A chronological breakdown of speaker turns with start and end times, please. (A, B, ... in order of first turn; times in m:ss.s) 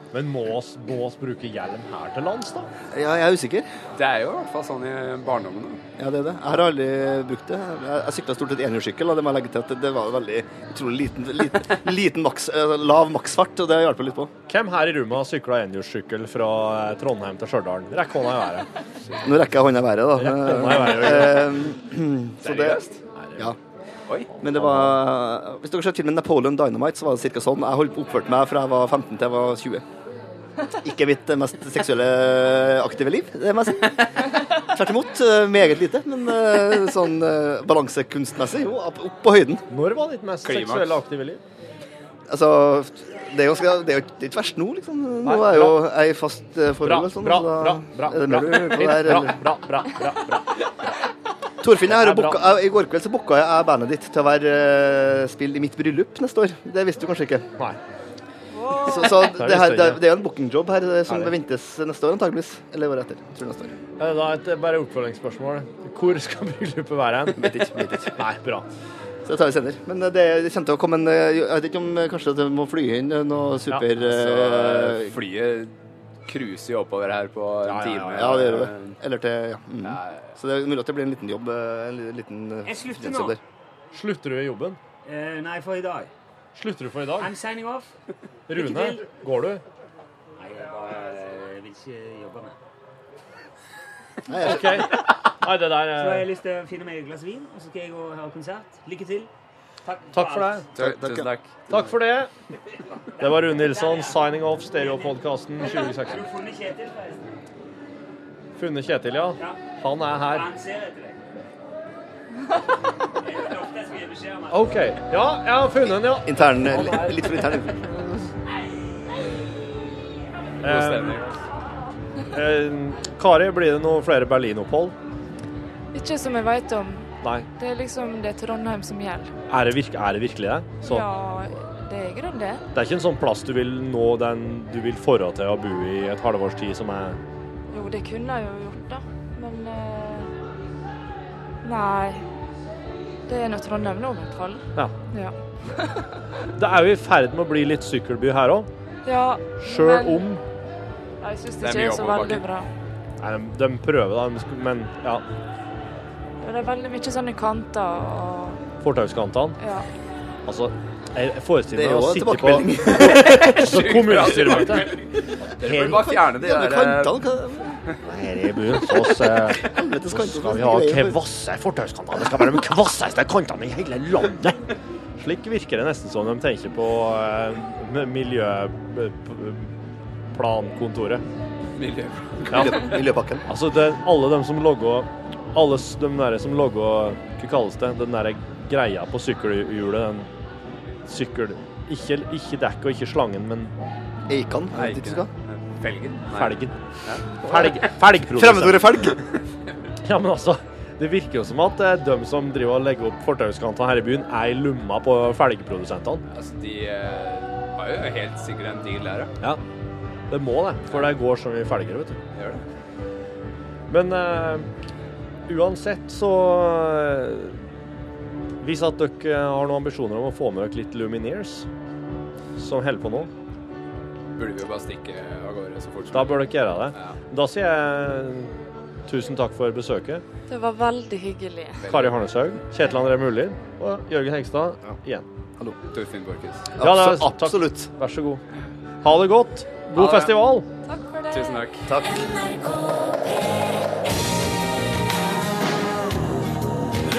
0:00.1-0:02.7 A
0:02.9-0:03.7 B
0:04.0-0:05.8 C
0:06.0-0:14.3 B
0:14.5-0:18.7 A
0:19.2-0:22.8 B
0:20.2-0:21.5 A
0:22.4-0:23.4 C
0:24.4-0:29.8 B
0:24.6-0:24.9 A
0:30.7-0:39.6 B
0:39.7-0:41.4 A
0:40.4-0:41.0 C
0:42.3-0:49.4 B
0:45.2-0:45.8 A
0:46.8-0:50.7 A
0:51.6-0:57.5 B
0:51.8-0:52.4 A
0:58.5-0:59.2 D
0:58.8-1:03.8 B
0:59.2-1:00.0 A
1:01.1-1:01.3 A
1:04.0-1:07.5 A
1:07.4-1:08.2 B
1:08.2-1:08.7 A
1:09.3-1:15.2 B
1:14.0-1:15.7 C
1:16.3-1:19.0 C
1:17.6-1:18.5 A
1:18.1-1:23.4 B
1:19.8-1:20.3 C
1:22.6-1:23.4 E
1:23.9-1:24.8 A
1:25.0-1:26.1 E
1:26.6-1:27.3 A
1:27.2-1:27.9 E
1:28.5-1:29.6 A
1:28.5-1:29.0 E
1:30.4-1:32.6 E
1:34.3-1:34.8 B
1:34.4-1:36.3 A
1:35.9-1:39.3 E
1:39.8-1:40.7 E
1:40.1-1:40.7 A
1:40.8-1:41.9 C
1:40.8-1:41.3 B
1:41.7-1:42.3 A
1:43.2-1:46.3 A
1:43.2-1:44.2 E
1:44.8-1:47.4 E
1:48.6-1:50.5 A
1:50.2-1:51.3 E
1:53.2-1:54.8 E
1:54.5-1:57.5 A
1:55.9-1:58.3 B
2:00.6-2:01.2 A
2:00.6-2:01.4 C
2:02.3-2:05.0 A
2:05.9-2:09.3 D
2:09.5-2:11.1 A
2:10.8-2:12.6 D
2:12.7-2:17.2 A
2:17.7-2:20.3 D
2:21.6-2:22.3 D
2:23.3-2:26.2 D
2:26.5-2:28.7 A
2:29.0-2:30.3 D
2:29.6-2:30.4 A
2:31.2-2:32.7 D
2:31.6-2:32.4 C
2:33.2-2:35.2 A
2:36.4-2:38.6 D
2:38.8-2:39.6 A
2:39.6-2:39.9 D
2:40.5-2:44.9 A
2:41.7-2:43.5 B
2:43.1-2:47.2 C
2:45.6-2:46.0 A
2:45.7-2:47.8 B
2:48.0-2:54.7 A
2:49.6-2:51.2 B
2:55.2-2:59.7 A
3:00.3-3:01.2 A
3:01.8-3:03.0 C
3:02.5-3:03.5 B
3:02.5-3:02.9 A
3:03.5-3:10.3 A
3:11.1-3:13.7 A
3:14.3-3:15.3 B
3:14.7-3:17.3 C
3:16.3-3:16.8 A
3:17.4-3:19.0 A
3:17.4-3:17.8 B
3:18.4-3:19.2 B
3:20.0-3:26.2 A
3:26.3-3:29.3 C
3:30.3-3:32.2 A
3:32.3-3:32.6 C
3:33.9-3:34.7 A
3:35.5-3:37.7 A
3:38.6-3:41.7 A
3:42.6-3:43.3 A
3:44.4-3:47.1 C
3:46.1-3:48.6 A
3:49.1-3:50.2 A
3:50.5-3:51.9 D
3:51.8-3:52.2 C
3:51.9-3:55.2 A
3:55.9-3:56.7 C
3:56.7-3:57.9 B
3:56.8-3:58.4 A
3:59.0-4:00.7 A
4:00.0-4:00.4 C
4:00.9-4:01.6 D
4:01.3-4:01.9 C
4:01.9-4:02.3 B